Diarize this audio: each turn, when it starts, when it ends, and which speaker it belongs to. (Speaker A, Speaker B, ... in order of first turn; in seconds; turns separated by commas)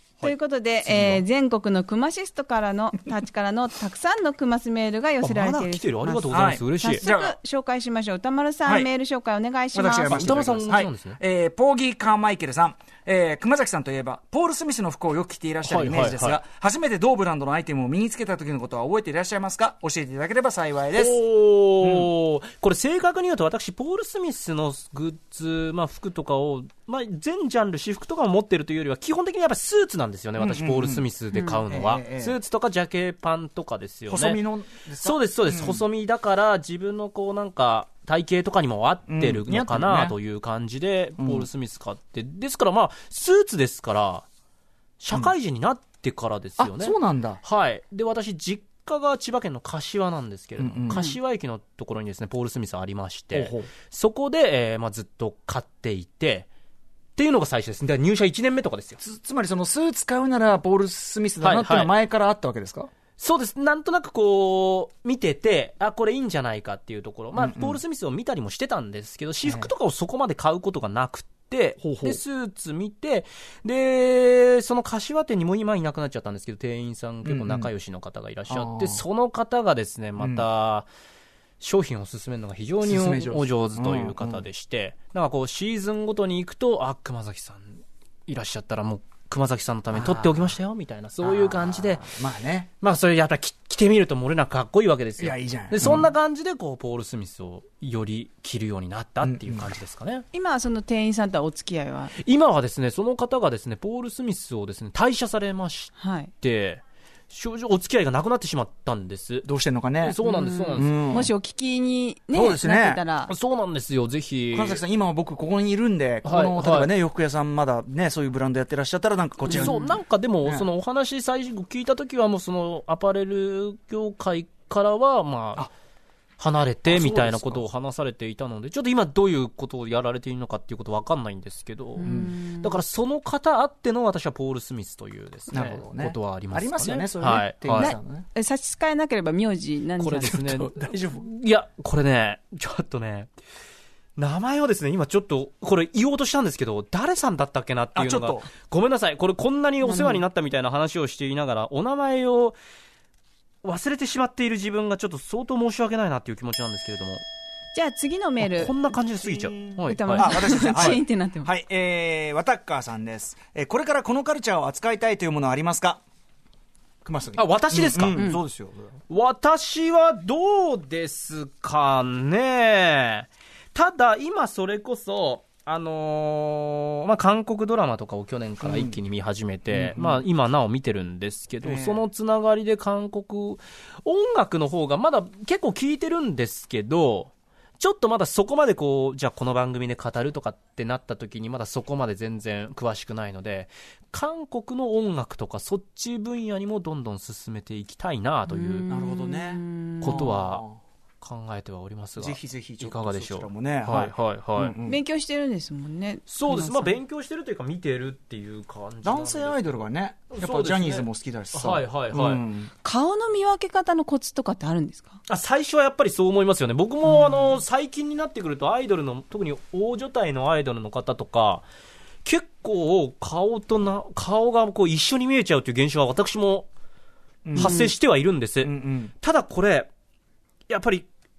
Speaker A: 0.2-10.3, Speaker B: 0.9-1.2, Speaker B: 5.2-7.0, Speaker C: 6.3-7.4, Speaker C: 9.7-21.2, Speaker B: 10.1-11.2, Speaker B: 15.6-16.4, Speaker B: 20.9-34.4, Speaker C: 21.8-22.1, Speaker C: 30.4-31.1, Speaker A: 31.3-31.6, Speaker C: 31.7-32.4, Speaker C: 34.1-35.8, Speaker B: 35.0-44.3, Speaker C: 39.1-40.2, Speaker C: 41.2-41.5, Speaker B: 45.0-56.5, Speaker C: 46.6-47.4, Speaker C: 50.6-51.0, Speaker C: 53.3-53.7, Speaker B: 57.2-59.0, Speaker C: 59.0-62.9, Speaker B: 61.4-61.9, Speaker B: 63.2-80.9, Speaker C: 67.3-67.8, Speaker C: 69.5-69.7, Speaker C: 71.8-72.2, Speaker C: 77.3-77.7, Speaker C: 78.5-79.0, Speaker C: 80.2-80.5, Speaker B: 81.6-92.1, Speaker C: 82.8-84.5, Speaker C: 89.9-90.5, Speaker C: 91.2-92.7, Speaker B: 92.8-100.3, Speaker C: 95.2-96.1, Speaker C: 99.2-99.7, Speaker A: 100.3-102.1, Speaker B: 102.2-109.5, Speaker A: 106.0-106.3, Speaker C: 109.5-110.2, Speaker B: 110.0-111.0, Speaker A: 110.2-113.3, Speaker C: 110.8-111.3, Speaker C: 112.3-113.0, Speaker B: 113.3-114.8, Speaker C: 114.5-119.9, Speaker B: 116.2-116.9, Speaker B: 119.5-125.7, Speaker A: 119.5-120.0, Speaker B: 126.4-137.9, Speaker C: 126.9-127.6, Speaker A: 132.0-132.8, Speaker C: 132.0-132.3, Speaker C: 135.5-138.3, Speaker A: 137.8-140.4, Speaker B: 140.0-143.3, Speaker C: 140.2-141.3, Speaker B: 144.2-152.6, Speaker C: 147.9-148.5, Speaker A: 149.8-150.2, Speaker B: 153.6-157.2, Speaker A: 157.7-158.7, Speaker B: 158.4-161.0, Speaker C: 159.6-166.0, Speaker A: 159.8-161.5, Speaker C: 167.0-169.0, Speaker B: 167.4-168.3, Speaker B: 169.1-198.9, Speaker C: 178.6-179.0, Speaker C: 179.7-180.2, Speaker C: 181.6-182.1, Speaker A: 198.5-200.3, Speaker C: 198.9-200.8, Speaker B: 200.0-200.6, Speaker B: 201.2-204.8, Speaker C: 202.2-205.0, Speaker A: 204.8-207.0, Speaker B: 206.3-212.4, Speaker C: 209.0-212.7, Speaker A: 212.8-215.2, Speaker B: 215.3-221.7, Speaker A: 217.2-217.5, Speaker B: 222.2-226.7, Speaker C: 227.4-227.8, Speaker B: 227.6-229.9, Speaker A: 227.6-227.9, Speaker C: 228.6-229.1, Speaker B: 230.7-231.1